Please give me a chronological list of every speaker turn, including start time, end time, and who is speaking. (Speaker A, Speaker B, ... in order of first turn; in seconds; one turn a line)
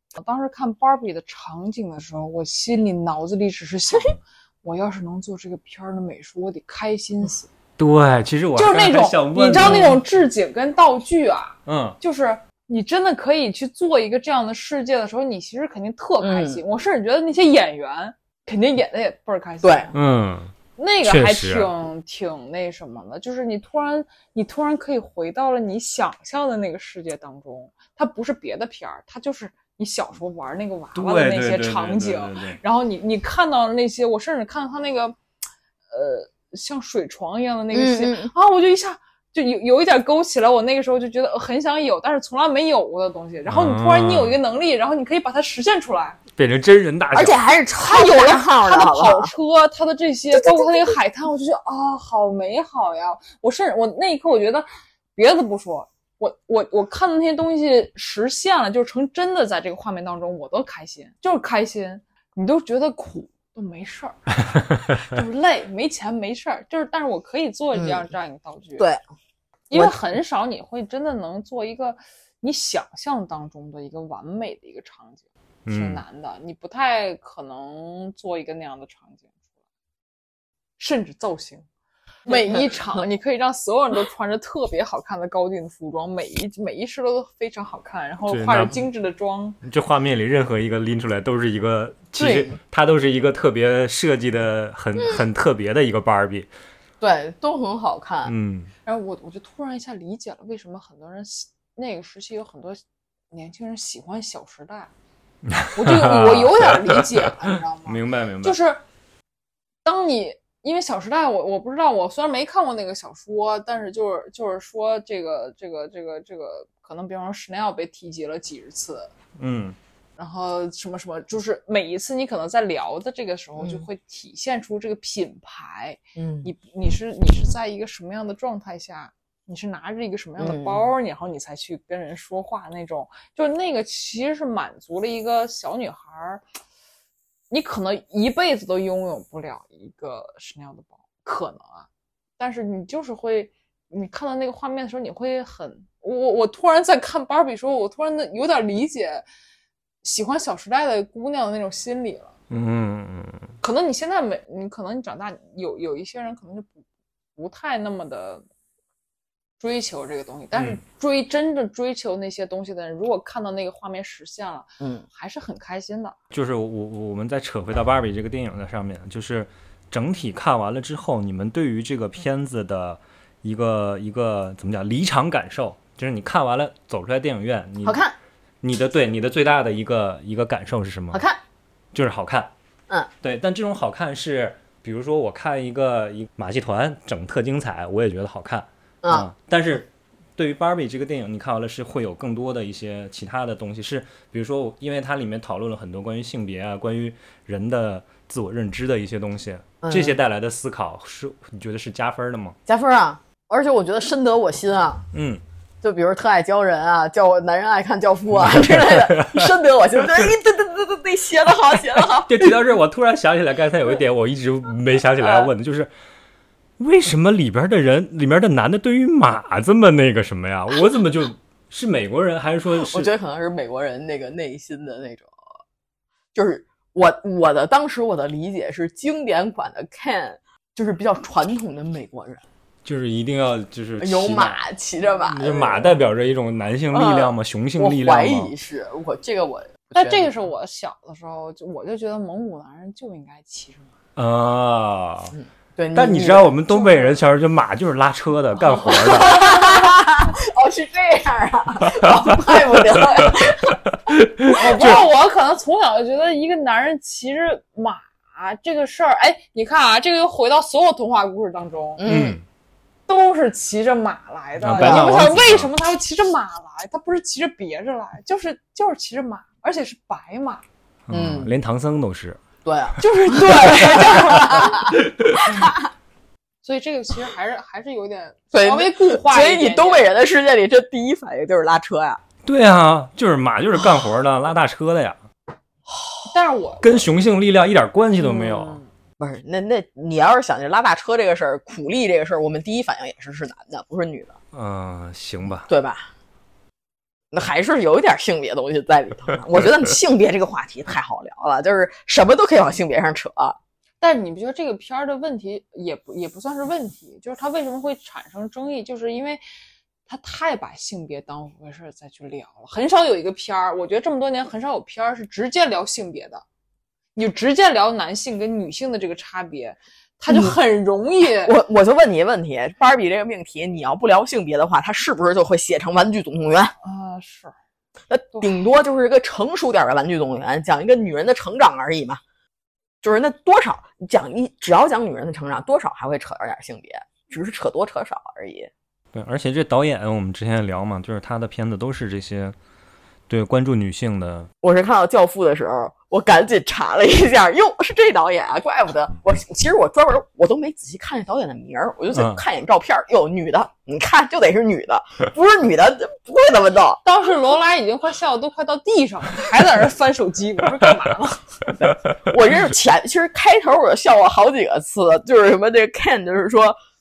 Speaker A: 0.1-7.5
Speaker B: 7.8-10.0
Speaker A: 8.6-19.9
Speaker C: 9.6-9.9
Speaker B: 11.7-12.0
Speaker C: 16.2-16.6
Speaker C: 19.6-19.9
Speaker B: 19.9-21.7
Speaker A: 20.8-35.2
Speaker B: 30.9-32.6
Speaker A: 35.9-46.2
Speaker C: 37.7-38.3
Speaker B: 43.5-44.4
Speaker B: 46.4-47.4
Speaker C: 47.1-49.3
Speaker A: 47.8-64.2
Speaker A: 65.0-68.9
Speaker C: 67.7-68.1
Speaker C: 68.8-69.0
Speaker A: 69.7-79.3
Speaker B: 75.7-76.0
Speaker A: 80.8-81.7
Speaker A: 82.2-89.6
Speaker C: 82.3-83.0
Speaker B: 88.2-88.8
Speaker B: 89.6-96.5
Speaker C: 92.2-92.5
Speaker C: 97.0-98.3
Speaker B: 98.2-98.7
Speaker A: 98.8-104.9
Speaker B: 105.5-107.3
Speaker A: 105.7-108.8
Speaker B: 107.8-108.6
Speaker A: 109.8-119.1
Speaker B: 119.4-119.8
Speaker A: 120.2-136.4
Speaker C: 123.6-123.8
Speaker C: 126.2-126.5
Speaker C: 130.4-130.8
Speaker A: 137.5-141.9
Speaker A: 142.4-149.2
Speaker A: 150.0-152.3
Speaker B: 152.5-153.5
Speaker A: 153.6-156.8
Speaker A: 157.3-158.4
Speaker A: 159.6-166.2
Speaker B: 160.5-160.8
Speaker C: 164.8-165.1
Speaker B: 166.3-178.0
Speaker C: 177.8-178.1
Speaker B: 178.6-181.2
Speaker C: 181.1-181.4
Speaker B: 181.9-182.5
Speaker B: 183.2-202.6
Speaker C: 199.8-200.2
Speaker C: 202.7-205.1
Speaker B: 205.1-205.4
Speaker C: 205.8-212.6
Speaker B: 208.4-209.5
Speaker B: 212.2-215.9
Speaker C: 215.2-215.5
Speaker B: 216.8-223.1
Speaker C: 222.7-225.3
Speaker C: 226.3-232.4
Speaker B: 232.8-234.6
Speaker C: 234.0-235.9
Speaker B: 235.2-238.5
Speaker C: 236.9-240.3
Speaker A: 239.9-243.9
Speaker B: 244.2-245.3
Speaker C: 245.3-246.5
Speaker B: 245.9-249.6
Speaker A: 246.7-247.1
Speaker C: 248.8-253.8
Speaker A: 249.4-249.8
Speaker B: 253.2-255.0
Speaker A: 254.5-262.0
Speaker C: 254.5-255.0
Speaker C: 262.0-262.4
Speaker B: 262.0-262.4
Speaker A: 263.1-270.6
Speaker B: 264.6-265.7
Speaker C: 264.8-265.3
Speaker B: 271.1-272.4
Speaker C: 271.1-271.5
Speaker C: 272.6-275.9
Speaker A: 273.0-275.0
Speaker A: 276.6-280.1
Speaker C: 278.5-282.2
Speaker B: 282.4-285.2
Speaker C: 285.9-286.3
Speaker A: 286.3-287.1
Speaker B: 286.8-288.8
Speaker A: 288.2-288.9
Speaker C: 289.2-294.3
Speaker B: 294.5-295.6
Speaker C: 295.6-296.1
Speaker C: 297.3-303.6
Speaker A: 304.0-309.4
Speaker A: 310.1-316.4
Speaker A: 317.1-321.5
Speaker C: 320.3-320.6
Speaker C: 321.4-326.7
Speaker A: 326.8-327.5
Speaker C: 328.1-332.2
Speaker C: 333.0-338.7
Speaker B: 339.1-342.5
Speaker B: 343.3-344.5
Speaker C: 344.6-357.0
Speaker B: 352.1-352.4
Speaker A: 357.0-361.5
Speaker C: 361.7-366.8